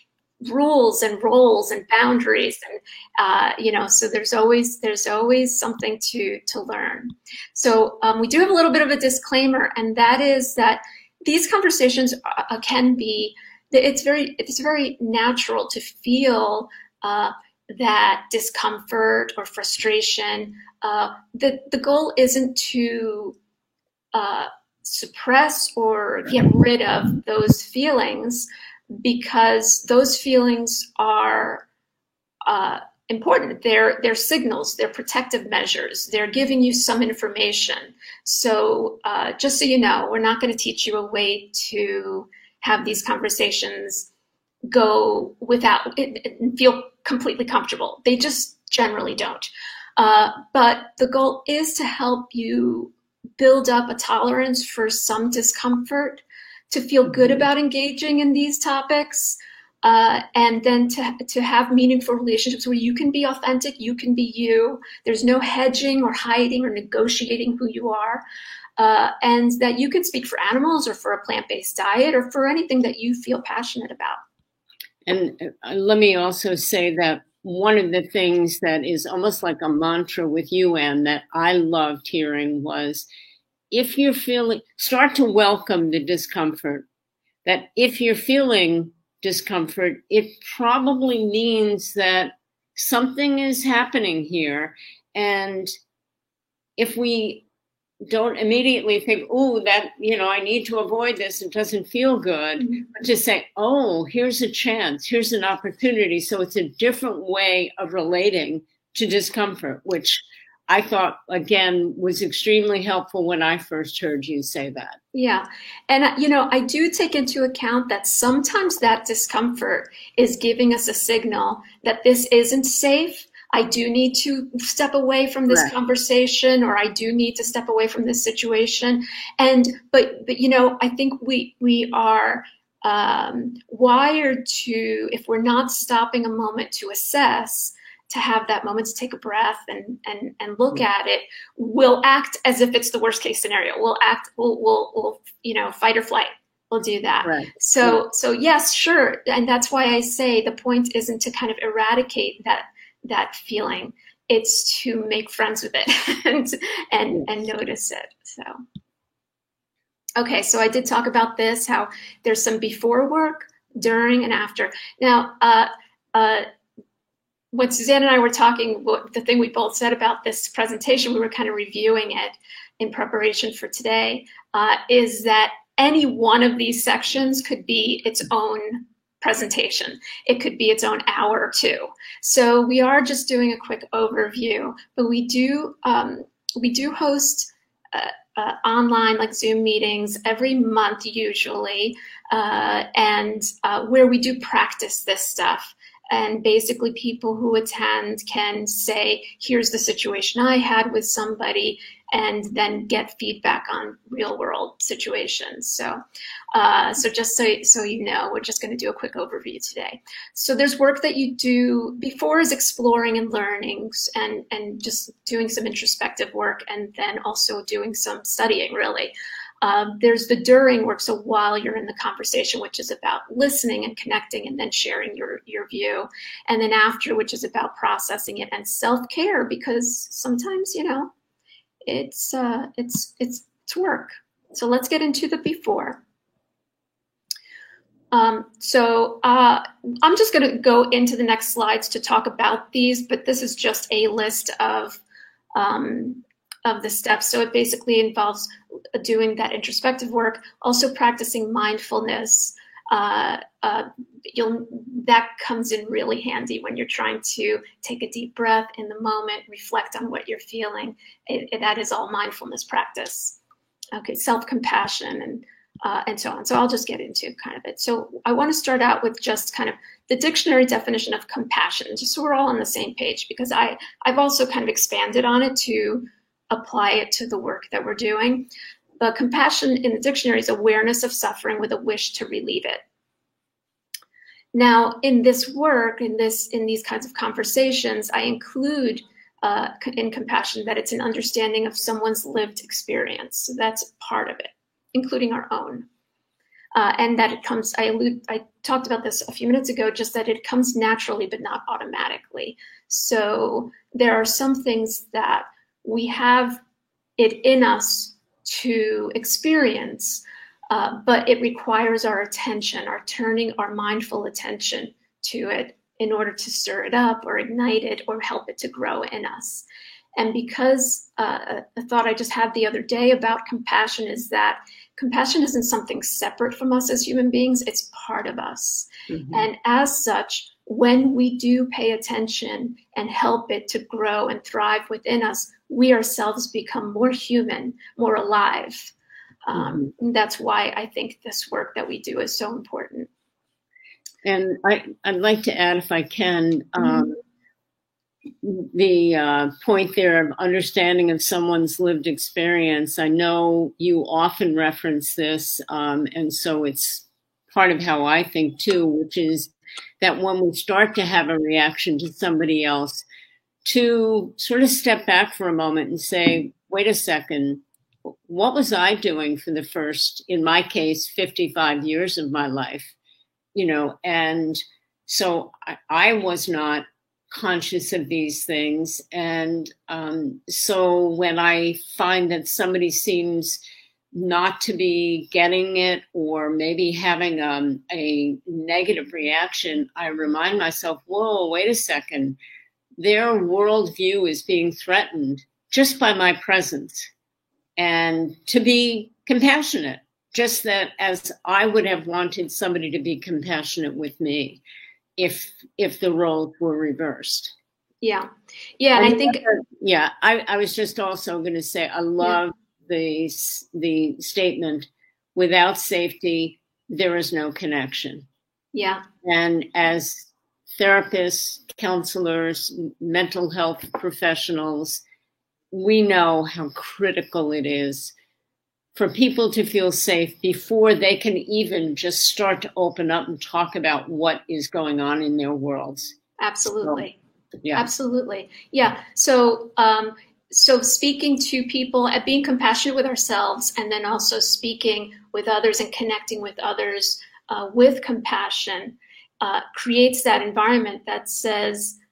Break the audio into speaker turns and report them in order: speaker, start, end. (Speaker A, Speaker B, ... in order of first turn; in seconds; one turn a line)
Speaker A: 0.4-23.4
Speaker A: 24.1-31.6
Speaker A: 32.5-44.1
Speaker A: 44.7-68.2
Speaker B: 57.1-57.5
Speaker A: 68.8-74.2
Speaker B: 75.1-83.1
Speaker B: 83.7-86.9
Speaker B: 87.5-95.7
Speaker B: 96.8-97.5
Speaker B: 98.0-115.0
Speaker A: 115.1-158.6
Speaker B: 147.2-148.0
Speaker A: 160.2-166.5
Speaker A: 167.5-206.0
Speaker A: 206.5-231.1
Speaker A: 231.8-236.0
Speaker A: 238.1-245.0
Speaker A: 245.5-263.4
Speaker A: 263.9-278.5
Speaker A: 279.0-282.8
Speaker A: 284.5-295.9
Speaker A: 296.7-306.6
Speaker A: 307.2-319.6
Speaker A: 320.2-338.9
Speaker B: 329.1-329.4
Speaker A: 339.4-343.1
Speaker B: 339.5-339.9
Speaker B: 344.2-347.2
Speaker A: 346.8-347.1
Speaker B: 348.4-363.1
Speaker B: 363.6-372.9
Speaker B: 373.6-383.6
Speaker B: 384.1-392.4
Speaker B: 393.0-397.1
Speaker B: 397.8-404.6
Speaker B: 405.2-407.5
Speaker A: 408.0-409.4
Speaker B: 409.0-418.3
Speaker A: 418.7-419.1
Speaker B: 419.2-425.0
Speaker B: 425.7-428.1
Speaker B: 428.9-436.2
Speaker A: 436.4-437.2
Speaker B: 437.6-437.9
Speaker A: 437.7-452.0